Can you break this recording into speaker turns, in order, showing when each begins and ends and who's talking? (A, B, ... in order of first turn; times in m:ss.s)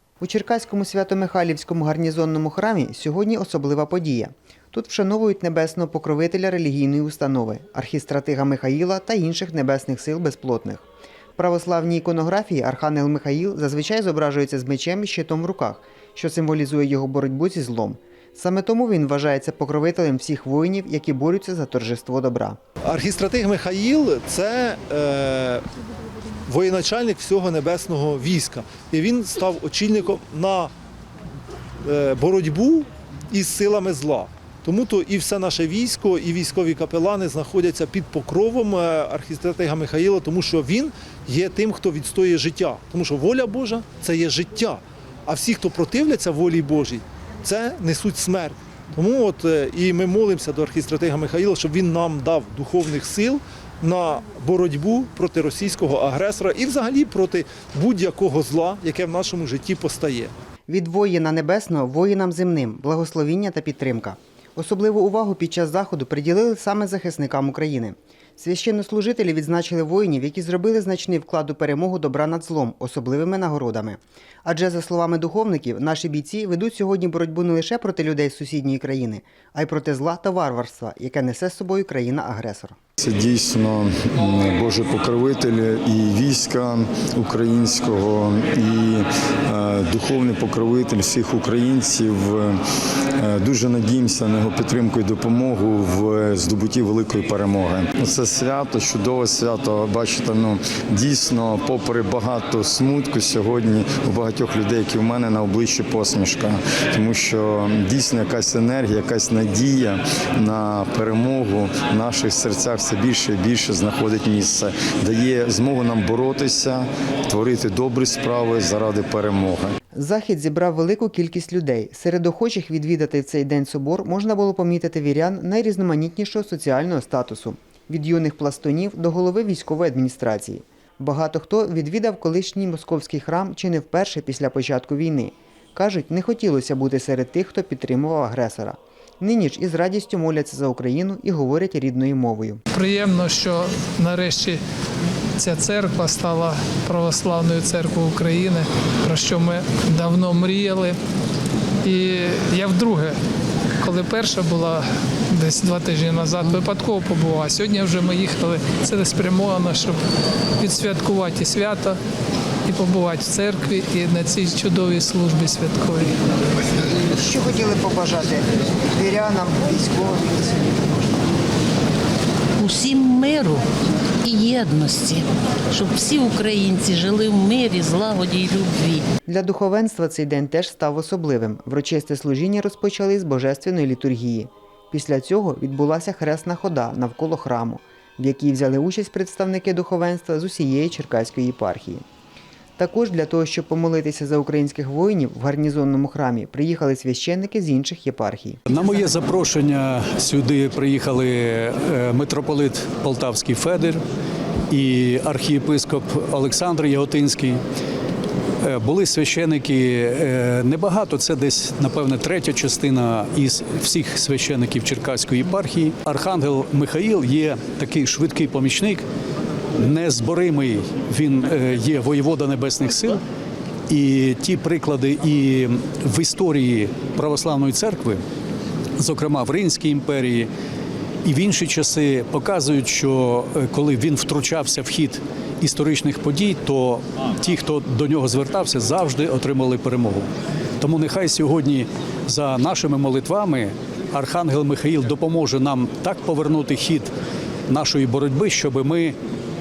0:00.2-0:22.6 A
0:22.9-0:25.6 B
0:26.5-0:30.7 B
0:31.8-1:00.3 B
1:00.7-1:22.8 A
1:23.0-1:32.6 C
1:33.2-1:59.7 C
1:59.9-2:22.6 A
2:22.7-2:24.6 D
2:25.4-2:31.0 D
2:31.8-2:33.2 D
2:33.8-2:40.0 D
2:40.6-2:42.0 D
2:42.7-2:46.2 D
2:47.0-2:51.2 A
2:52.6-2:53.6 E
2:54.2-2:59.0 E
2:59.3-3:12.0 A
3:12.8-3:18.6 A
3:18.7-3:24.0 F
3:24.7-3:27.6 F
3:28.6-3:39.0 F
3:39.8-3:43.2 F
3:43.9-3:48.2 F
3:49.0-3:50.5 F
3:51.2-4:00.3 F
4:00.8-4:07.1 F
4:07.7-4:09.2 F